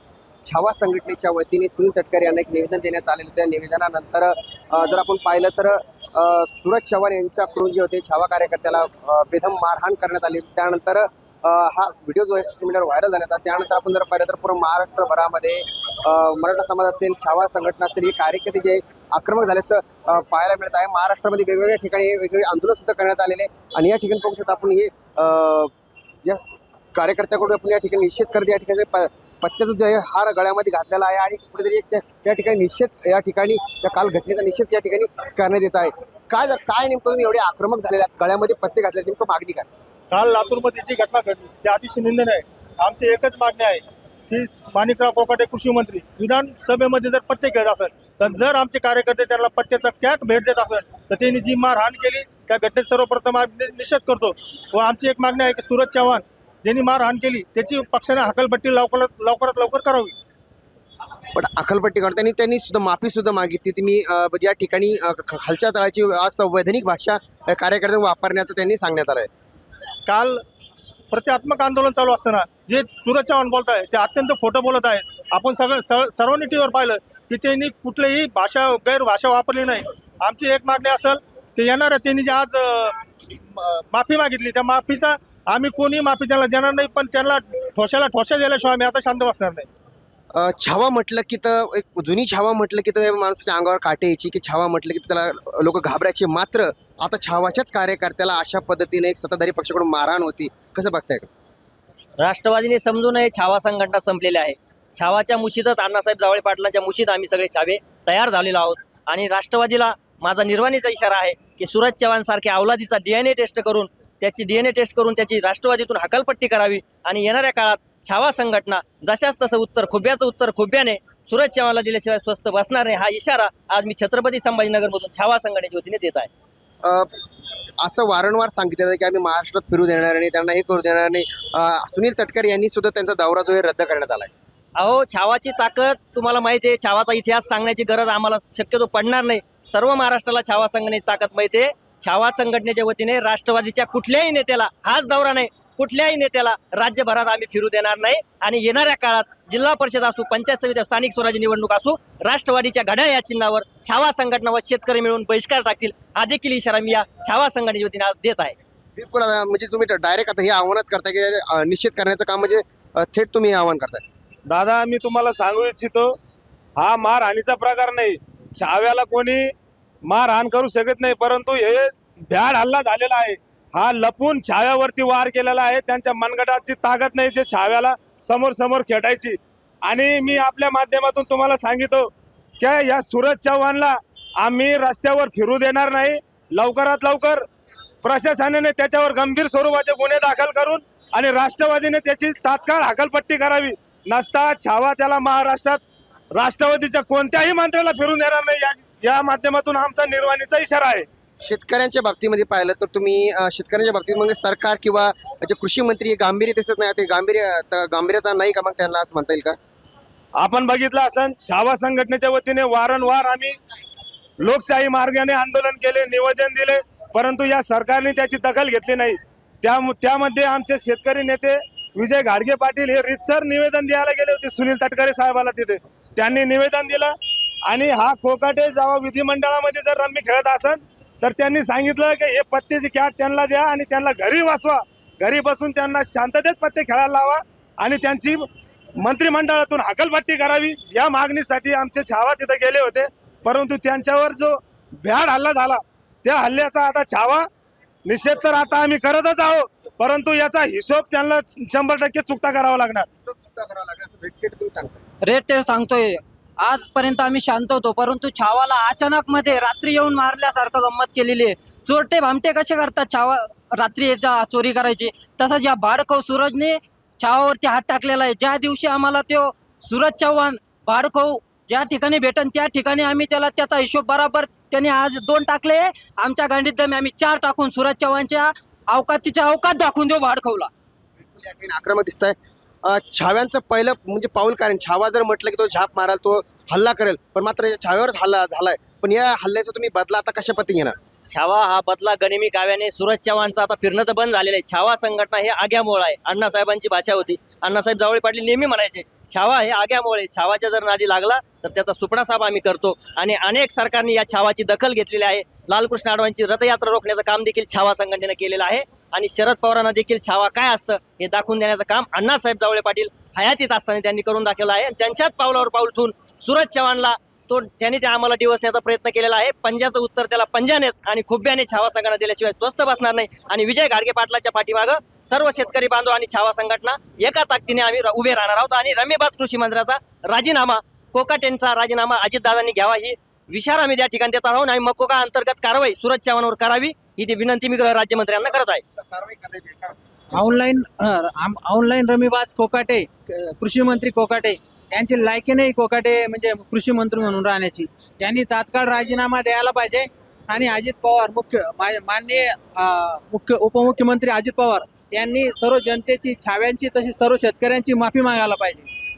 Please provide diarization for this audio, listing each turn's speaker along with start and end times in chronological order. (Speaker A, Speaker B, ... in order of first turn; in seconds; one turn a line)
Speaker A: 0.5-25.7
Speaker A: 26.2-39.6
Speaker B: 40.1-60.1
Speaker A: 61.3-69.3
Speaker B: 70.1-70.4
Speaker B: 71.1-83.0
Speaker B: 83.5-89.7
Speaker A: 90.3-101.3
Speaker C: 102.2-126.3
Speaker A: 126.8-127.1
Speaker A: 127.8-134.3
Speaker C: 134.8-158.6
Speaker A: 158.9-164.0
Speaker D: 164.5-166.2
Speaker D: 166.8-169.5
Speaker D: 170.1-187.5
Speaker D: 188.0-195.8
Speaker D: 196.3-201.1
Speaker A: 201.4-209.6
Speaker D: 210.3-213.6
Speaker D: 214.4-227.1
Speaker D: 227.7-238.4
Speaker D: 239.0-247.5
Speaker D: 248.1-253.1
Speaker A: 253.2-255.0
Speaker E: 255.2-280.7
Speaker A: 281.4-290.9
Speaker C: 291.3-338.8
Speaker A: 338.9-340.0
Speaker F: 340.3-358.9